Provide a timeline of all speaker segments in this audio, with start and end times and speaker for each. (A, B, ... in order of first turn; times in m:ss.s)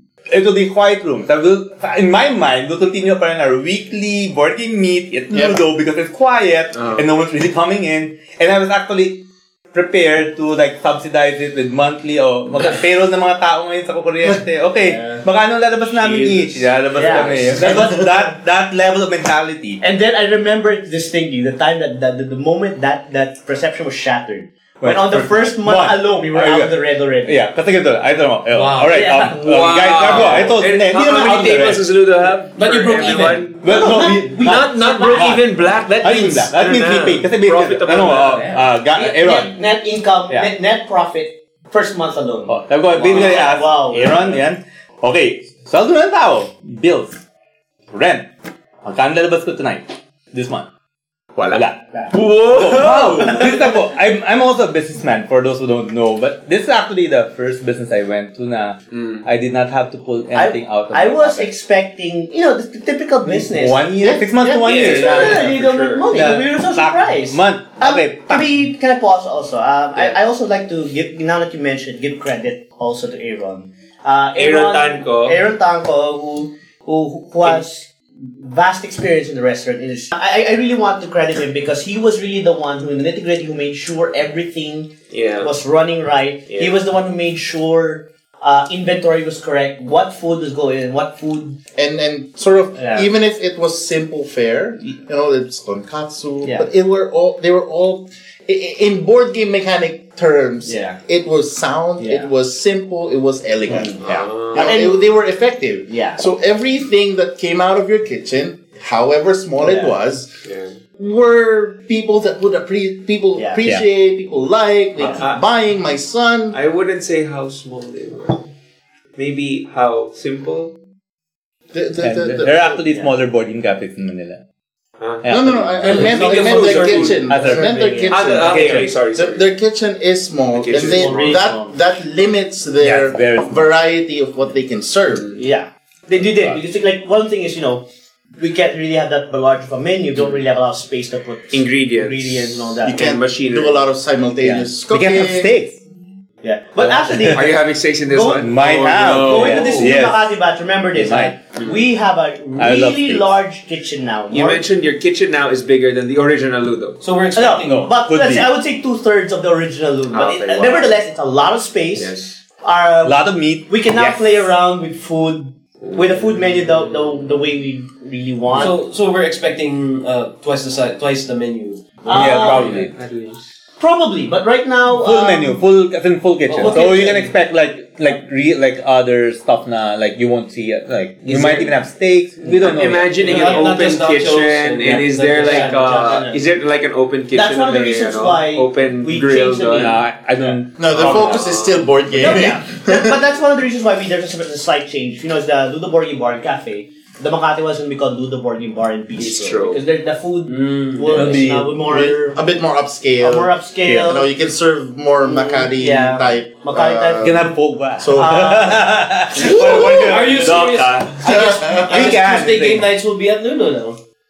0:00.3-0:19.8 A
0:05.3-0:05.6 B
0:06.8-0:07.0 C
0:14.8-0:15.2 D
0:16.0-0:17.6 C
0:17.0-0:18.3 D
0:19.8-0:27.4 D
0:24.8-0:31.9 A
0:28.5-0:29.3 E
0:28.8-0:30.6 D
0:29.4-0:38.6 C
0:32.6-0:33.9 E
0:33.6-0:35.5 A
0:33.6-0:35.5 D
0:36.0-0:39.6 A
0:38.3-0:38.6 E
0:38.9-0:44.4 D
0:42.5-0:47.2 A
0:43.0-0:43.5 C
0:47.9-0:48.3 A
0:48.8-0:50.7 A
0:51.4-0:53.6 C
0:51.4-0:51.9 A
0:52.4-1:01.5 A
0:58.9-0:59.2 C
1:00.3-1:31.6 D
1:03.2-1:05.6 A
1:04.6-1:06.3 C
1:06.1-1:08.5 A
1:14.4-1:15.4 C
1:25.1-1:25.5 C
1:31.8-1:50.3 B
1:32.8-1:33.1 D
1:36.4-1:36.7 D
1:40.6-1:41.0 D
1:42.0-1:42.3 D
1:43.7-1:45.1 D
1:44.0-1:44.7 C
1:45.9-1:46.2 D
1:49.6-1:49.9 D
1:50.4-1:50.7 C
1:51.0-1:56.6 B
1:53.4-1:53.6 D
1:55.0-1:55.2 D
1:55.0-1:55.4 C
1:56.5-1:58.5 C
1:59.2-2:00.8 C
2:01.7-2:02.8 B
2:02.0-2:04.4 A
2:02.9-2:03.2 D
2:05.0-2:07.2 C
2:05.2-2:07.8 A
2:05.2-2:15.4 B
2:05.9-2:08.8 D
2:08.1-2:09.5 C
2:08.5-2:08.9 A
2:10.5-2:11.4 C
2:10.7-2:11.8 D
2:12.8-2:13.6 A
2:15.4-2:17.9 D
2:18.4-2:23.1 D
2:21.5-2:23.8 C
2:22.8-2:25.5 B
2:24.4-2:25.8 A
2:26.4-2:28.5 D
2:27.1-2:27.4 A
2:27.1-2:29.9 C
2:28.3-2:30.4 A
2:29.0-2:34.6 D
2:29.5-2:30.0 E
2:30.9-2:31.4 A
2:32.6-2:33.3 A
2:34.3-2:37.0 C
2:37.0-2:37.9 E
2:37.4-2:42.1 D
2:37.7-2:38.5 A
2:40.1-2:41.0 C
2:42.0-2:42.4 C
2:42.6-2:48.8 D
2:43.0-2:44.4 A
2:45.8-2:46.9 C
2:48.5-2:52.8 E
2:52.0-2:52.8 D
2:52.1-2:52.9 A
2:52.5-2:53.4 C
2:53.8-2:55.6 D
2:55.0-3:03.4 A
2:56.5-2:57.3 D
3:01.3-3:01.7 C
3:02.5-3:10.0 C
3:03.1-3:06.2 E
3:03.3-3:03.6 D
3:05.4-3:06.4 D
3:07.3-3:10.0 D
3:09.8-3:11.5 A
3:10.8-3:13.2 B
3:10.9-3:11.8 C
3:12.1-3:22.4 D
3:19.2-3:19.8 C
3:20.5-3:21.3 E
3:21.1-3:22.0 A
3:21.9-3:28.8 B
3:23.2-3:24.3 D
3:25.2-3:27.3 D
3:27.2-3:32.9 A
3:28.1-3:28.9 D
3:29.3-3:30.2 B
3:29.5-3:34.0 E
3:31.2-3:32.2 B